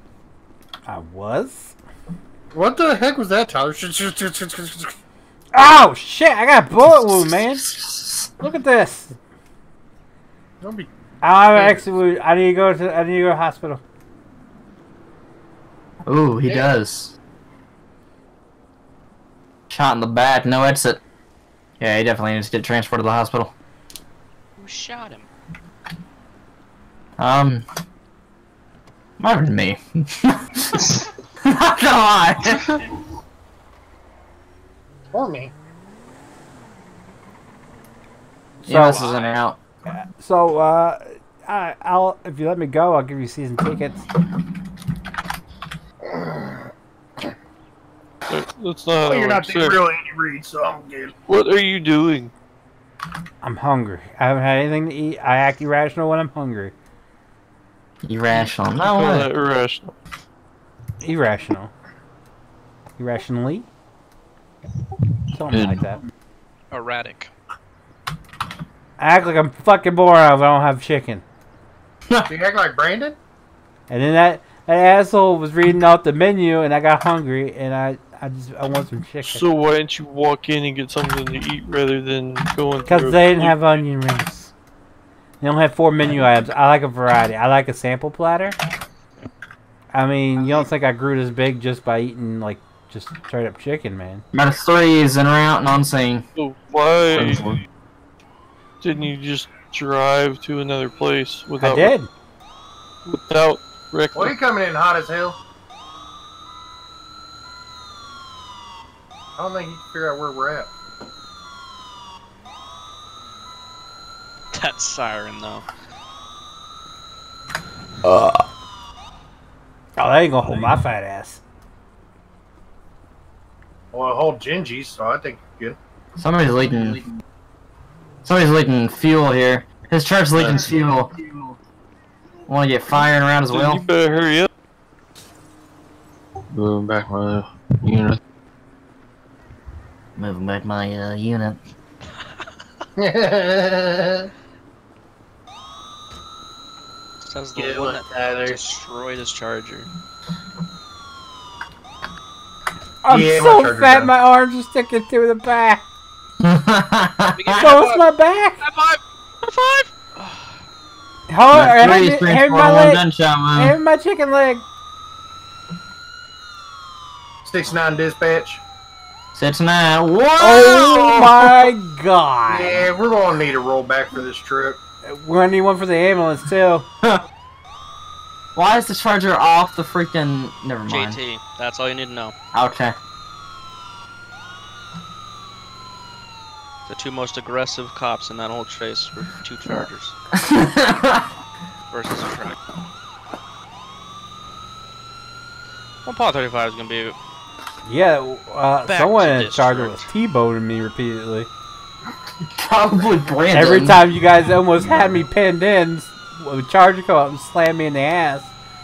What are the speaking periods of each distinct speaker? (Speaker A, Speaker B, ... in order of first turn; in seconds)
Speaker A: 0.8-1.7, 5.5-7.7, 8.4-9.2, 11.2-13.8, 38.6-39.0, 39.9-44.1, 53.4-56.7, 61.0-61.7, 63.0-63.7, 65.3-66.0, 69.0-71.2, 73.9-79.5, 82.8-84.5, 85.4-88.6, 89.9-94.2, 101.6-102.1, 118.0-118.4, 120.0-121.4, 153.0-155.8, 157.6-158.6, 161.3-164.7, 170.4-172.9, 175.0-176.8, 197.8-201.5, 203.5-208.5
Speaker B: 2.5-5.0, 10.6-10.9, 11.5-11.8, 35.1-35.5, 46.0-46.7, 49.0-51.1, 72.3-73.2, 104.1-105.4, 109.4-110.7, 123.9-125.8, 143.0-144.3, 147.5-148.6, 153.1-154.1, 167.4-168.6, 172.5-174.8
Speaker C: 6.9-8.3, 16.1-17.1, 19.7-21.0, 21.8-23.5, 27.2-27.6, 29.2-32.8, 38.6-39.6, 58.0-59.3, 94.3-96.2, 126.2-127.0, 128.2-131.1, 132.5-133.8, 140.2-141.6, 156.4-157.8, 161.5-163.8, 169.3-171.7, 178.5-181.2, 182.5-182.9, 190.4-191.3, 202.6-204.1
Speaker D: 24.6-25.3, 38.9-39.4, 66.7-67.3, 114.5-115.7, 147.2-149.9, 157.3-158.1, 158.6-160.6, 180.9-182.3, 186.9-190.2, 191.9-192.6, 196.0-197.2, 198.9-200.1
Speaker E: 48.3-49.8, 51.3-52.3, 58.8-59.9, 79.2-83.6, 96.3-97.5, 98.8-101.9, 103.0-104.4, 133.5-134.5
Speaker F: 65.5-65.8, 97.2-97.6, 130.3-131.4, 136.5-138.2